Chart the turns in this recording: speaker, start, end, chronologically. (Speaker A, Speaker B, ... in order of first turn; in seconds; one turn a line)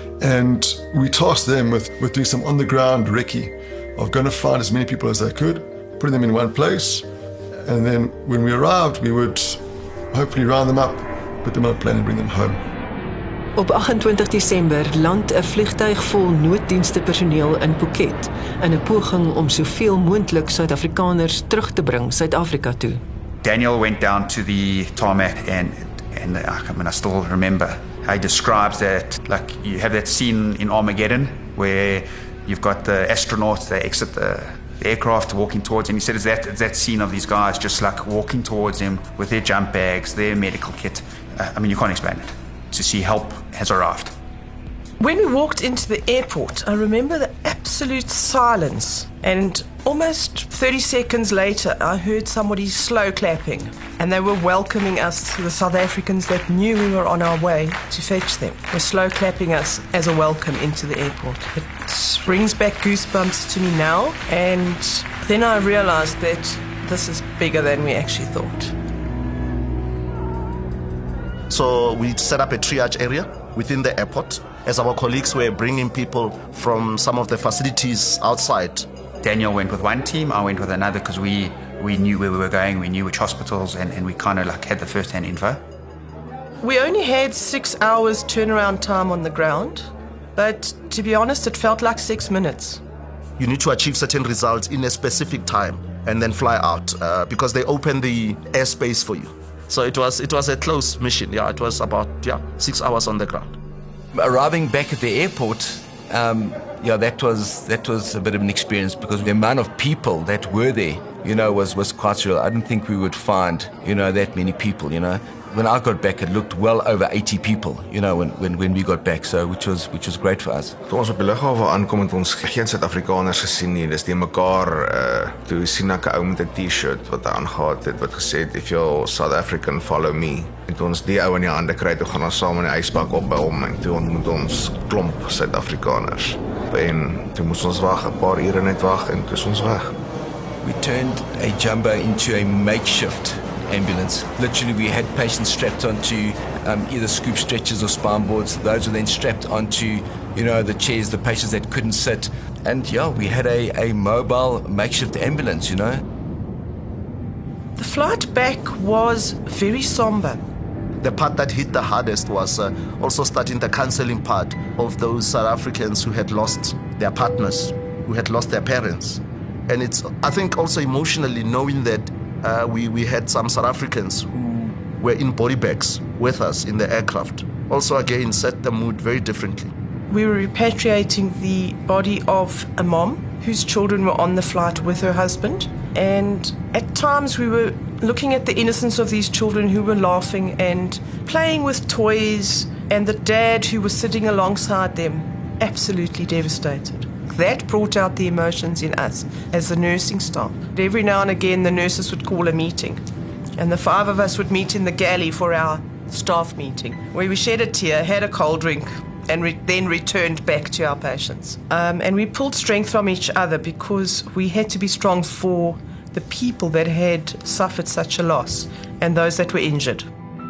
Speaker A: 0.2-7.0
Speaker A: 7.6-12.6
Speaker B: 13.6-23.0
Speaker C: 23.4-44.1
Speaker D: 45.0-68.7
Speaker E: 71.5-78.9
Speaker C: 79.2-85.6
Speaker D: 86.6-92.8
Speaker E: 93.4-103.5
Speaker F: 104.1-120.8
Speaker G: 120.9-139.9
Speaker F: 140.6-156.0
Speaker D: 157.8-160.4
Speaker E: 161.0-179.7
Speaker D: 180.1-203.0
Speaker D: 203.6-220.1